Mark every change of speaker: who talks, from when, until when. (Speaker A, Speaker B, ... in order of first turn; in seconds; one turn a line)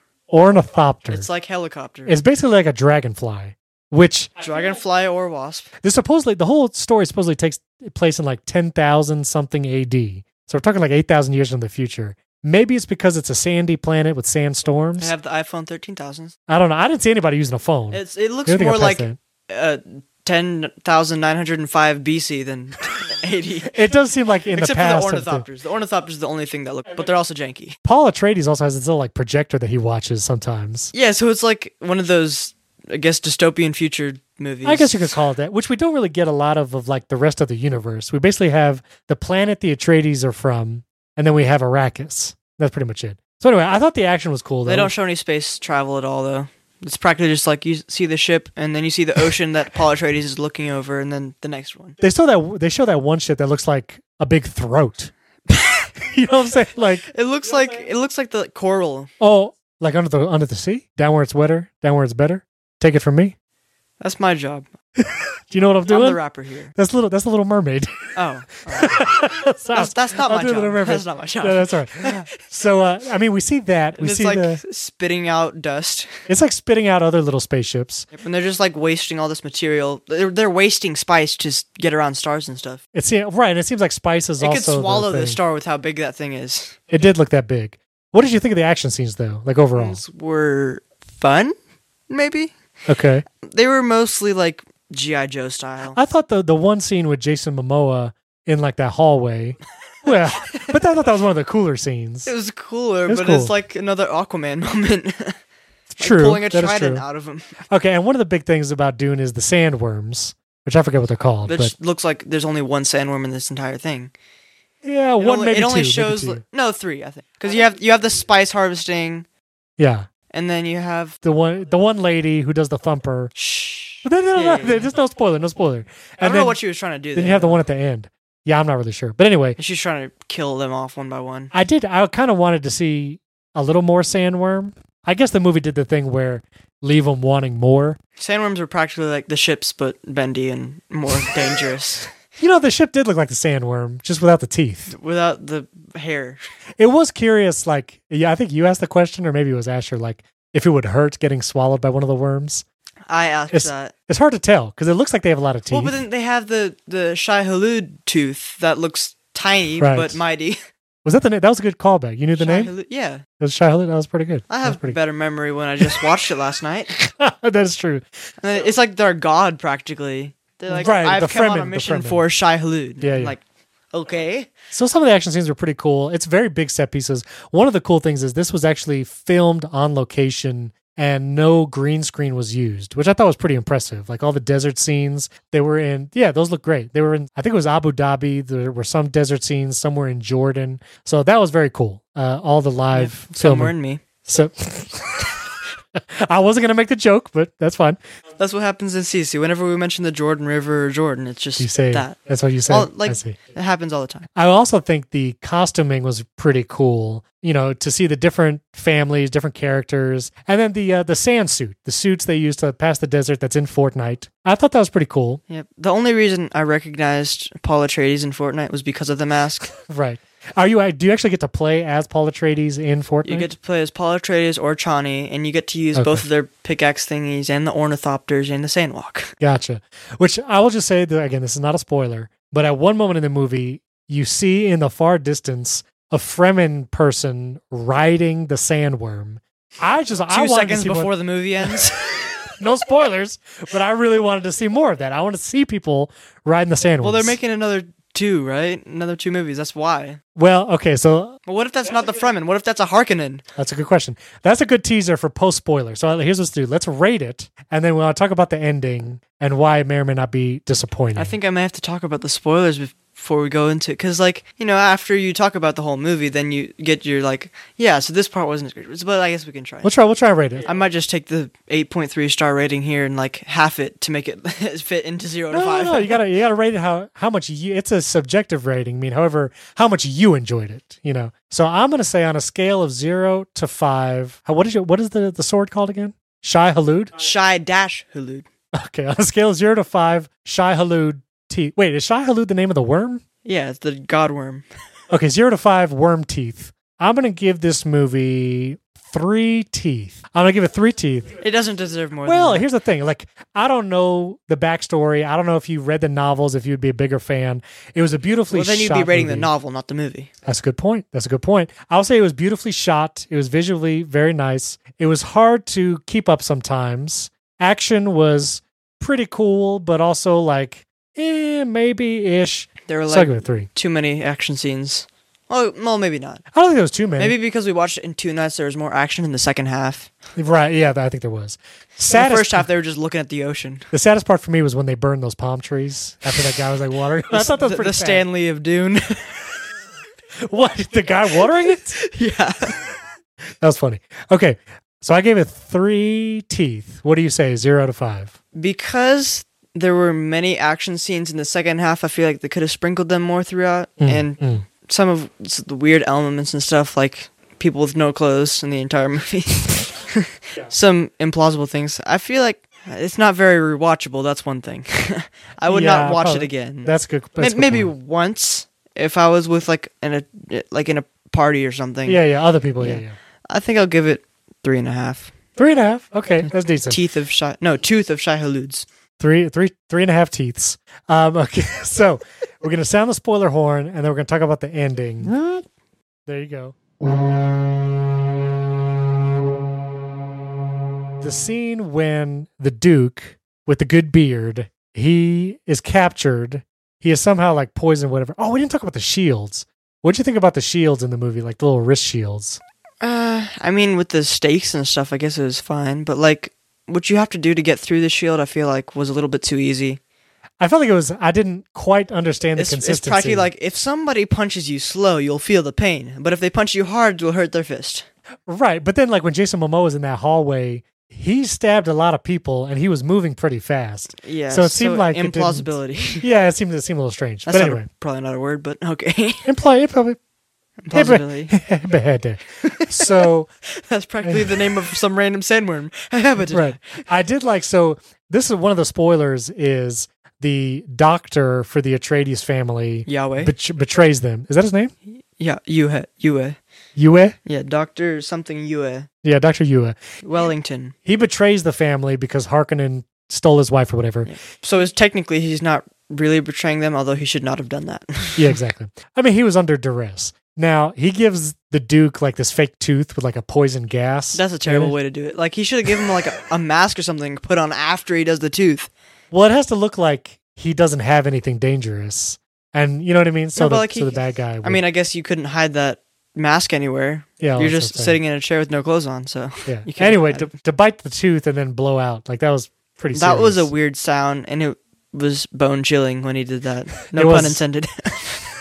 Speaker A: 0.3-1.3
Speaker B: 1.1-2.1
Speaker A: 2.0-4.3
Speaker B: 4.4-5.7
Speaker A: 5.8-15.1
Speaker B: 15.0-16.3
Speaker A: 16.5-19.2
Speaker B: 17.9-23.8
Speaker A: 23.7-25.4
Speaker B: 24.5-27.8
Speaker A: 27.8-30.9
Speaker B: 30.9-35.1
Speaker A: 34.6-44.9
Speaker B: 44.6-52.0
Speaker A: 52.0-55.1
Speaker B: 55.5-55.9
Speaker A: 56.0-57.1
Speaker B: 57.1-59.1
Speaker A: 59.2-63.4
Speaker B: 64.0-64.7
Speaker A: 65.0-66.2
Speaker B: 65.9-66.7
Speaker A: 66.7-68.1
Speaker B: 68.1-69.1
Speaker A: 68.7-74.6
Speaker B: 69.7-72.3
Speaker B: 74.0-76.1
Speaker A: 76.3-78.1
Speaker B: 78.1-82.8
Speaker A: 82.9-85.4
Speaker B: 84.4-86.8
Speaker A: 86.9-90.0
Speaker B: 89.7-91.5
Speaker B: 92.1-92.5
Speaker A: 92.9-93.2
Speaker B: 93.3-96.0
Speaker A: 95.9-102.3
Speaker B: 102.2-105.4
Speaker A: 103.1-103.5
Speaker B: 105.9-107.5
Speaker A: 106.0-107.0
Speaker A: 107.7-111.7
Speaker B: 111.5-114.1
Speaker A: 114.8-116.4
Speaker B: 115.2-119.2
Speaker A: 119.8-120.1
Speaker B: 120.3-121.2
Speaker A: 121.2-123.3
Speaker B: 123.3-124.9
Speaker A: 124.0-126.6
Speaker B: 126.2-127.6
Speaker A: 127.1-129.6
Speaker B: 129.6-131.5
Speaker A: 131.5-138.0
Speaker B: 138.2-142.1
Speaker A: 142.4-144.9
Speaker B: 144.9-146.4
Speaker A: 146.8-152.6
Speaker B: 153.1-153.9
Speaker A: 153.5-155.9
Speaker B: 155.7-160.6
Speaker A: 159.8-160.2
Speaker A: 161.0-162.7
Speaker B: 162.4-163.2
Speaker A: 163.4-165.0
Speaker B: 164.5-166.9
Speaker A: 167.0-168.0
Speaker B: 168.4-174.5
Speaker A: 170.7-172.2
Speaker A: 173.0-173.3
Speaker A: 174.7-195.3
Speaker B: 192.9-194.0
Speaker A: 195.9-198.0
Speaker B: 198.4-204.3
Speaker A: 201.6-203.4
Speaker A: 204.3-215.4
Speaker B: 215.5-219.7
Speaker A: 219.9-223.5
Speaker B: 223.2-229.3
Speaker A: 225.9-226.2
Speaker A: 229.4-241.1
Speaker B: 240.3-242.0
Speaker A: 242.6-247.3
Speaker B: 247.0-250.2
Speaker A: 250.3-251.4
Speaker B: 251.4-253.4
Speaker A: 253.6-261.3
Speaker B: 261.1-269.9
Speaker A: 269.8-270.6
Speaker B: 270.6-276.2
Speaker A: 275.5-287.1
Speaker B: 287.2-288.5
Speaker A: 288.7-293.2
Speaker B: 293.4-294.6
Speaker A: 295.1-301.4
Speaker B: 301.4-302.6
Speaker A: 302.2-309.5
Speaker B: 308.5-310.3
Speaker A: 310.4-323.7
Speaker B: 322.9-326.4
Speaker A: 326.5-327.4
Speaker B: 327.2-330.1
Speaker A: 330.4-332.7
Speaker B: 332.1-333.9
Speaker A: 333.9-338.2
Speaker B: 337.3-339.4
Speaker A: 340.4-342.0
Speaker B: 341.9-342.8
Speaker A: 343.6-348.3
Speaker B: 348.5-372.2
Speaker A: 354.0-354.6
Speaker A: 365.7-367.9
Speaker A: 372.1-373.1
Speaker B: 372.8-375.3
Speaker A: 375.6-377.0
Speaker B: 376.4-378.9
Speaker A: 379.2-385.3
Speaker A: 386.3-386.8
Speaker A: 391.2-402.6
Speaker B: 403.0-410.0
Speaker A: 410.6-413.5
Speaker B: 412.6-418.1
Speaker A: 418.5-427.9
Speaker B: 424.2-426.2
Speaker B: 427.4-429.4
Speaker A: 429.4-430.2
Speaker B: 430.8-431.5
Speaker A: 430.9-433.5
Speaker B: 432.6-436.8
Speaker A: 434.2-434.5
Speaker A: 436.5-444.9
Speaker B: 443.1-443.5
Speaker B: 445.4-446.6
Speaker A: 446.9-447.4
Speaker B: 447.4-449.1
Speaker A: 449.2-449.9
Speaker B: 450.2-450.9
Speaker A: 451.0-454.3
Speaker B: 454.2-458.5
Speaker A: 458.4-464.9
Speaker B: 464.3-468.9
Speaker A: 469.3-474.8
Speaker B: 473.6-480.5
Speaker A: 477.4-478.2
Speaker A: 479.7-483.7
Speaker B: 483.1-488.4
Speaker A: 487.1-487.6